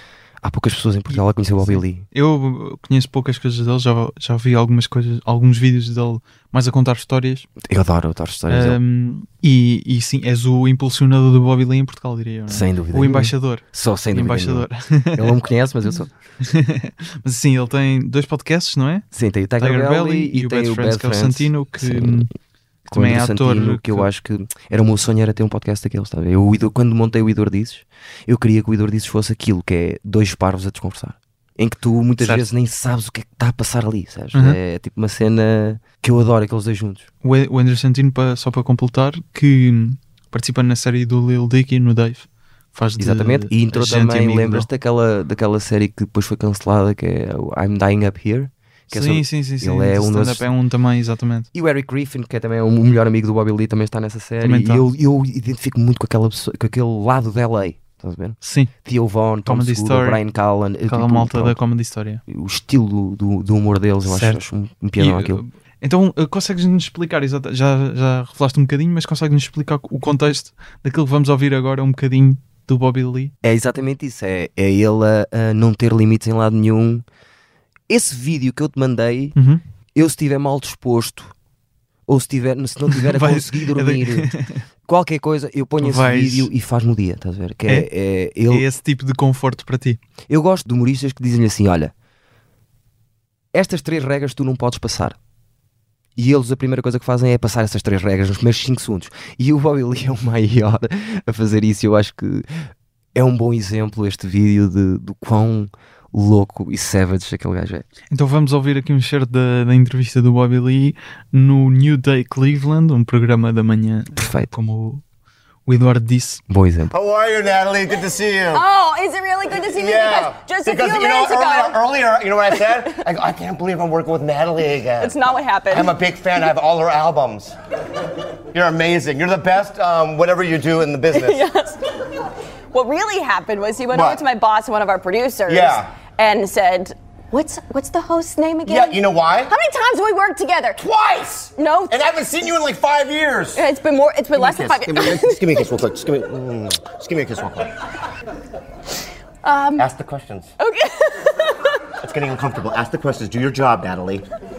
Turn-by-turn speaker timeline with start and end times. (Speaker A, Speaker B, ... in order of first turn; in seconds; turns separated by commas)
Speaker A: 0.4-2.1, Speaker B: 1.1-7.5, Speaker A: 7.6-8.8, Speaker B: 8.5-15.4, Speaker A: 12.5-16.1, Speaker B: 16.4-19.1, Speaker A: 19.1-22.3, Speaker B: 19.6-22.3, Speaker B: 22.9-24.1, Speaker A: 22.9-37.1, Speaker B: 32.2-32.5, Speaker B: 37.2-44.7, Speaker A: 43.0-50.5, Speaker B: 48.9-51.5, Speaker A: 51.5-61.6, Speaker B: 54.4-54.9, Speaker B: 58.4-58.7, Speaker B: 59.5-60.2, Speaker B: 60.9-62.2, Speaker A: 62.3-65.4, Speaker B: 64.1-64.4, Speaker B: 65.0-73.3, Speaker A: 73.4-77.0, Speaker A: 77.9-79.4, Speaker B: 79.4-79.6, Speaker A: 80.0-81.3, Speaker A: 82.1-84.3, Speaker B: 82.9-84.6, Speaker A: 84.8-88.7, Speaker B: 85.8-86.5, Speaker B: 88.5-90.0, Speaker A: 90.3-91.9, Speaker A: 93.5-95.2, Speaker A: 96.2-102.5, Speaker A: 103.2-107.9, Speaker B: 108.1-115.0, Speaker A: 114.1-114.5, Speaker B: 115.7-116.4, Speaker A: 116.5-117.0, Speaker C: 116.9-118.7, Speaker D: 118.5-121.8, Speaker C: 119.5-125.2, Speaker D: 125.0-126.0, Speaker C: 125.7-127.5, Speaker C: 128.5-131.5, Speaker D: 131.1-131.8, Speaker D: 132.7-140.8, Speaker C: 133.9-134.2, Speaker C: 135.5-136.0, Speaker C: 138.7-139.5, Speaker C: 140.8-143.6, Speaker D: 141.6-142.1, Speaker D: 143.6-145.7, Speaker C: 144.3-147.7, Speaker D: 149.4-149.9, Speaker C: 149.8-150.5, Speaker D: 150.6-151.8, Speaker C: 152.0-154.3